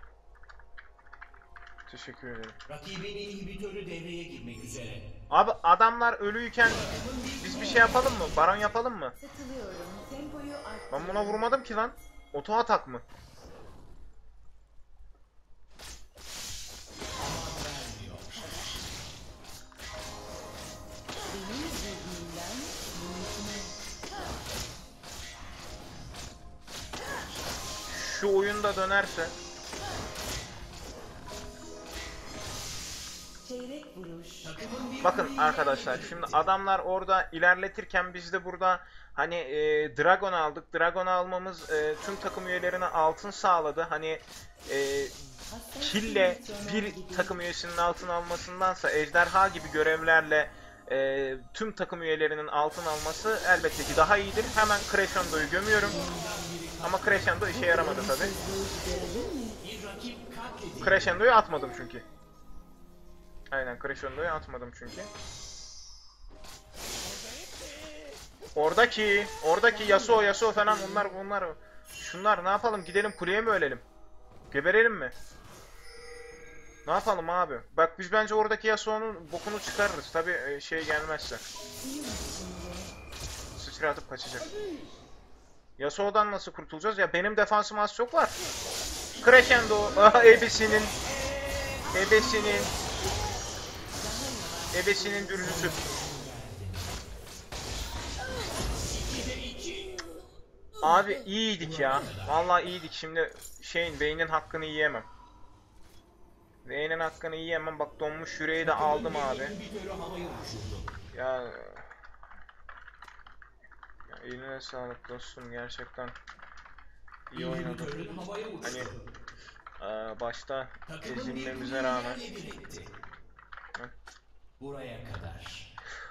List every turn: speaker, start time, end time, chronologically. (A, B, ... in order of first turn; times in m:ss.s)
0:01.9-0:02.6 A
0:02.7-0:05.1 B
0:05.3-0:09.2 A
0:06.7-0:08.8 B
0:09.2-0:11.6 C
0:10.9-0:13.0 A
0:17.2-0:18.7 B
0:21.3-0:23.8 C
0:27.9-0:29.3 A
0:33.4-0:34.5 C
0:34.4-0:36.4 B
0:35.0-0:45.2 A
0:45.5-0:47.4 C
0:45.8-0:56.0 A
0:54.1-0:54.7 C
0:55.7-0:57.4 B
0:56.8-0:58.4 A
0:57.5-0:59.6 C
0:59.6-1:01.2 B
1:00.8-1:02.0 A
1:03.5-1:05.1 A
1:08.6-1:13.8 A
1:09.7-1:11.1 C
1:14.5-1:15.1 A
1:16.8-1:21.4 A
1:21.8-1:23.0 C
1:23.6-1:24.5 A
1:25.8-1:28.4 A
1:29.2-1:30.9 A
1:31.9-1:32.7 A
1:34.0-1:35.7 C
1:34.7-1:35.8 A
1:35.4-1:37.2 B
1:38.9-1:40.0 B
1:40.8-1:45.1 A
1:41.6-1:42.5 B
1:46.6-1:49.6 A
1:48.6-1:50.9 B
1:51.1-1:51.9 A
1:54.1-1:56.2 A
1:57.3-1:58.0 A
1:57.3-1:59.0 B
1:58.6-1:58.9 A
1:59.8-2:02.2 A
2:00.9-2:02.9 B
2:04.6-2:05.7 B